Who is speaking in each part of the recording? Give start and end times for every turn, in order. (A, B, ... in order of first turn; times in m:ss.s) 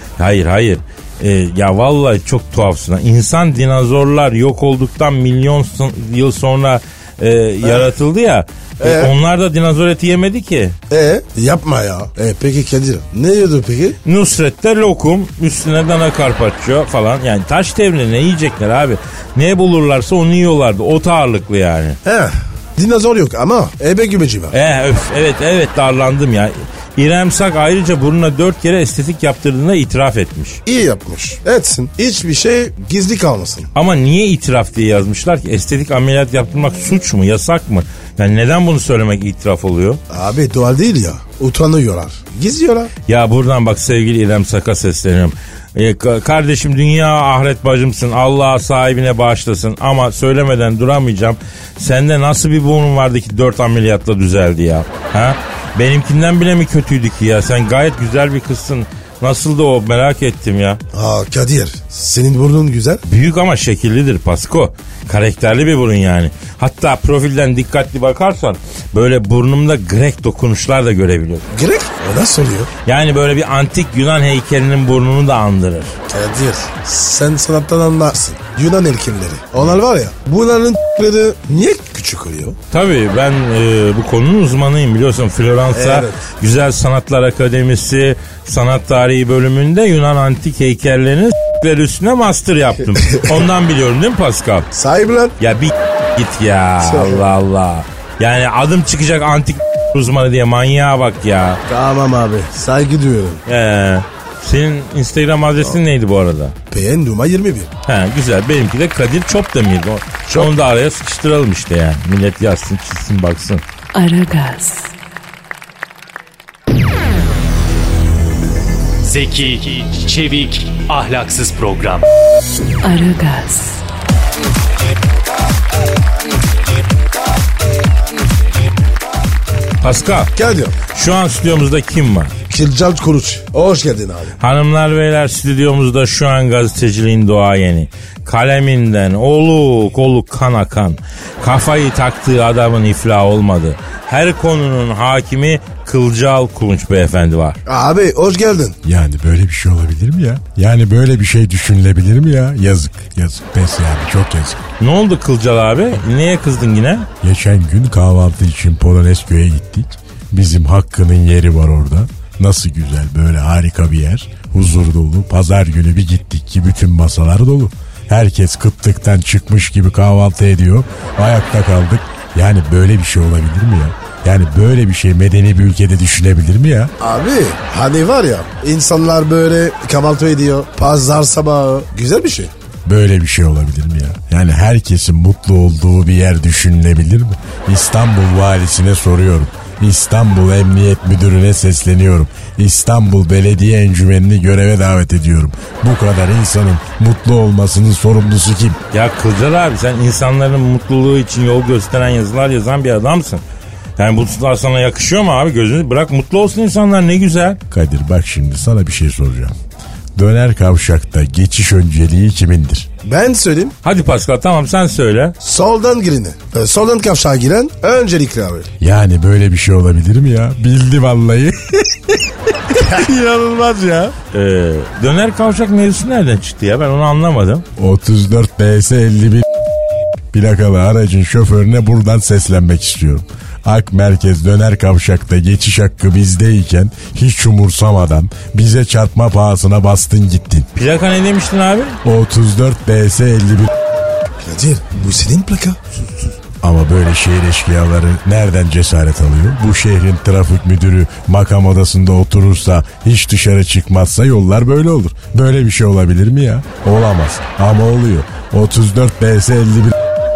0:00.2-0:10.8 A
0:07.6-0:07.9 B
0:08.8-0:09.1 B
0:10.9-0:14.0 B
0:14.0-0:22.0 A
0:22.0-0:24.5 B
0:24.5-0:30.6 A
0:30.6-0:33.7 B
0:33.8-0:40.0 A
0:40.1-0:42.9 B
0:43.1-1:00.8 A
1:00.9-1:03.0 B
1:03.0-1:11.4 A
1:11.5-1:12.7 B
1:12.9-1:16.0 A
1:16.1-1:22.6 B
1:22.7-1:34.7 A
1:25.7-1:26.2 B
1:33.0-1:33.4 B
1:34.7-1:35.4 B
1:35.4-1:41.6 A
1:36.8-1:37.2 B
1:41.7-1:43.4 B
1:43.5-1:46.5 A
1:46.7-1:47.7 B
1:47.9-1:53.6 A
1:53.9-1:54.9 C
1:59.0-2:02.1 D
2:02.8-2:03.8 C
2:09.8-2:10.3 A
2:10.4-2:10.8 B
2:10.9-2:12.3 A
2:12.5-2:14.4 B
2:14.4-2:27.6 A
2:27.6-2:28.8 B
2:28.8-2:34.6 E
2:34.8-2:37.1 A
2:37.2-2:56.9 E
2:57.0-3:02.5 B
3:02.8-3:18.8 E
3:18.9-3:23.4 A
3:24.0-3:27.6 A
3:27.7-3:29.5 E
3:30.2-3:32.9 E
3:33.0-3:33.8 B
3:33.8-3:35.4 A
3:35.4-3:38.7 B
3:38.8-3:42.2 E
3:42.7-3:44.1 B
3:44.3-3:47.6 A
3:47.8-3:49.5 E
3:50.3-4:00.7 E
4:00.8-4:02.0 A
4:02.0-4:03.7 E
4:04.4-4:05.8 B
4:06.0-4:06.3 A
4:06.6-4:19.9 E